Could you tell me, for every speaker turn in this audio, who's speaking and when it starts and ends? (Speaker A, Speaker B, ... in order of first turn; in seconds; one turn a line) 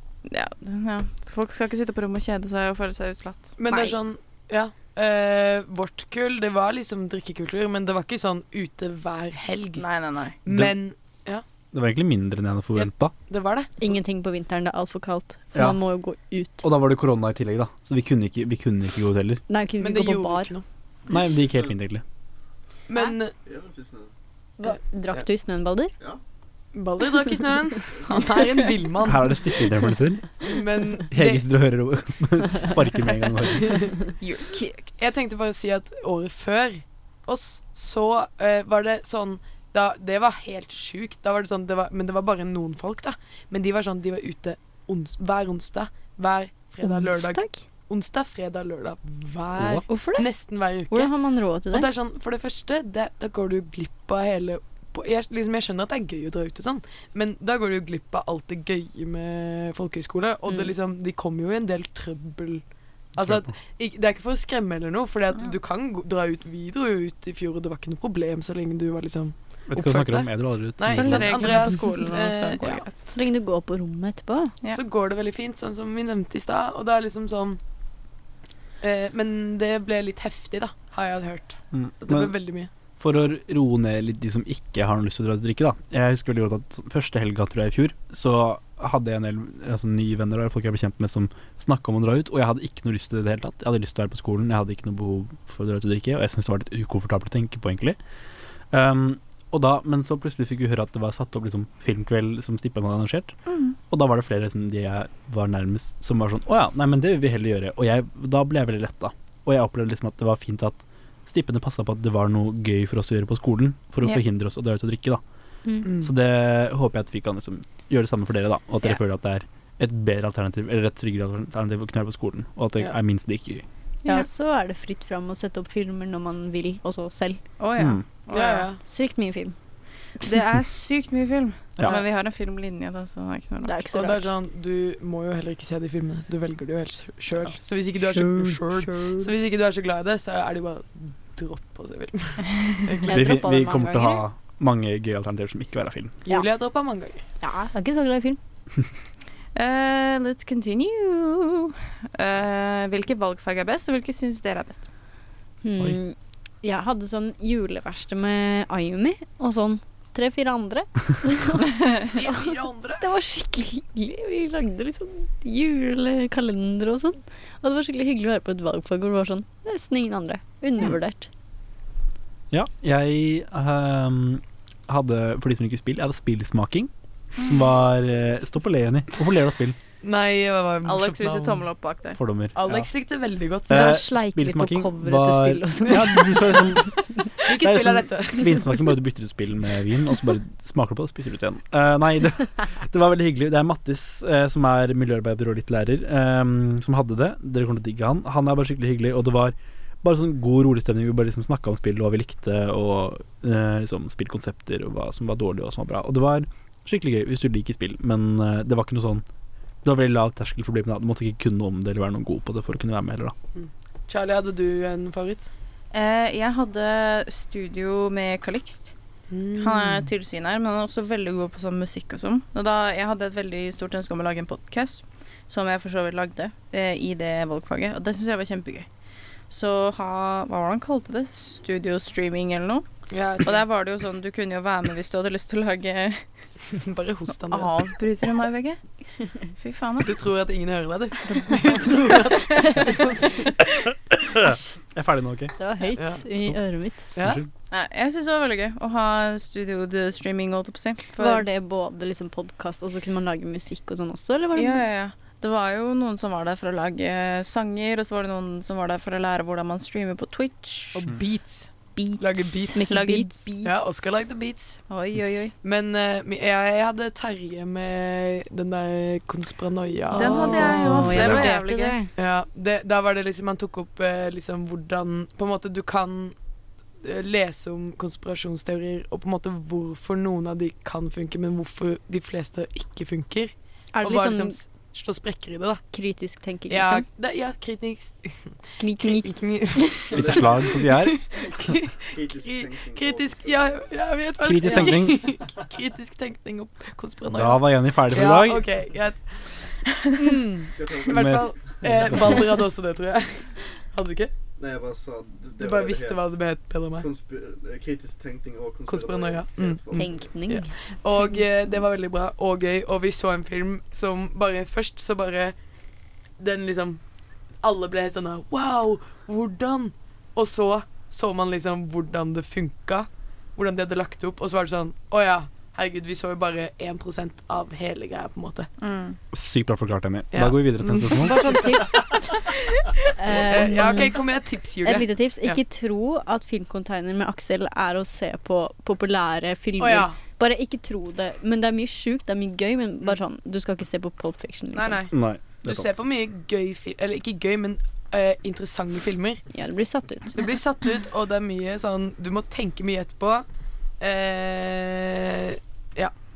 Speaker A: 0.2-3.9
Speaker B: 3.6-9.8
Speaker A: 9.8-10.4
Speaker B: 10.4-11.4
Speaker C: 10.5-10.8
Speaker C: 11.7-13.1
Speaker B: 12.8-13.7
Speaker D: 13.8-16.6
Speaker C: 15.5-15.8
Speaker C: 16.6-19.4
Speaker D: 19.5-20.5
Speaker B: 19.8-20.6
Speaker C: 21.1-22.0
Speaker E: 21.1-21.6
Speaker B: 22.9-23.3
Speaker E: 23.4-24.1
Speaker D: 24.6-25.9
Speaker B: 26.7-29.4
Speaker C: 29.0-30.4
Speaker B: 30.4-31.4
Speaker C: 31.1-33.9
Speaker B: 33.6-34.0
Speaker A: 34.2-35.0
Speaker B: 35.0-51.1
Speaker D: 46.8-47.6
Speaker D: 49.9-50.3
Speaker D: 50.9-51.9
Speaker B: 51.7-62.6
Speaker B: 63.1-72.8
Speaker C: 63.2-63.5
Speaker C: 69.7-71.5
Speaker A: 70.9-73.0
Speaker D: 73.1-74.5
Speaker B: 74.7-77.6
Speaker B: 78.8-82.7
Speaker C: 81.7-82.3
Speaker C: 83.0-98.0
Speaker C: 98.7-103.3
Speaker A: 103.5-103.8
Speaker C: 103.9-115.2
Speaker D: 115.6-116.0
Speaker C: 116.0-123.6
Speaker D: 124.0-127.4
Speaker A: 127.6-128.7
Speaker C: 127.8-128.0
Speaker B: 128.3-128.8
Speaker D: 128.8-129.6
Speaker A: 130.2-133.8
Speaker D: 133.6-134.3
Speaker B: 133.9-143.3
Speaker D: 138.3-139.3
Speaker D: 143.0-144.2
Speaker C: 143.1-146.2
Speaker B: 146.2-147.2
Speaker D: 147.4-148.4
Speaker A: 149.6-154.9
Speaker D: 155.6-171.3
Speaker B: 162.1-163.1
Speaker C: 172.5-179.8
Speaker A: 177.4-177.7
Speaker B: 180.0-181.7
Speaker A: 180.8-182.2
Speaker C: 182.2-182.9
Speaker B: 182.5-184.0
Speaker C: 183.7-209.2
Speaker D: 183.7-186.7
Speaker B: 187.4-188.6
Speaker C: 209.8-213.3
Speaker B: 213.6-215.5
Speaker A: 215.9-218.9
Speaker B: 219.3-220.1
Speaker A: 219.6-228.9
Speaker A: 229.5-232.9
Speaker B: 233.1-233.6
Speaker A: 233.4-236.2
Speaker B: 236.7-237.8
Speaker A: 237.5-238.8
Speaker A: 239.6-240.2
Speaker B: 240.0-243.6
Speaker C: 244.1-245.5
Speaker D: 245.6-247.1
Speaker B: 246.0-246.2
Speaker B: 247.1-247.4
Speaker A: 247.7-251.4
Speaker D: 251.2-254.8
Speaker A: 254.5-261.1
Speaker B: 260.9-262.8
Speaker A: 261.9-263.7
Speaker D: 262.7-263.7
Speaker B: 263.6-264.8
Speaker A: 264.9-265.5
Speaker B: 265.6-271.2
Speaker D: 270.1-272.1
Speaker A: 270.1-272.0
Speaker C: 270.9-271.4
Speaker B: 272.1-276.3
Speaker B: 277.0-285.8
Speaker D: 283.9-284.6
Speaker D: 285.9-287.1
Speaker B: 286.7-299.4
Speaker D: 288.8-289.4
Speaker C: 290.1-291.2
Speaker E: 292.1-293.9
Speaker C: 294.4-295.3
Speaker C: 297.3-298.7
Speaker B: 300.1-304.3
Speaker E: 300.7-302.1
Speaker C: 301.1-302.6
Speaker E: 304.6-306.3
Speaker B: 305.6-307.1
Speaker E: 307.0-310.1
Speaker B: 308.9-315.5
Speaker D: 309.9-311.4
Speaker B: 316.4-317.0
Speaker B: 317.6-328.7
Speaker A: 328.8-329.2
Speaker C: 329.3-331.4
Speaker B: 330.3-331.7
Speaker D: 331.1-332.4
Speaker D: 333.2-334.2
Speaker B: 333.2-335.6
Speaker D: 334.8-345.1
Speaker B: 339.8-340.2
Speaker B: 344.7-349.4
Speaker C: 345.1-345.9
Speaker D: 349.5-350.5
Speaker B: 350.3-353.4
Speaker B: 354.0-356.1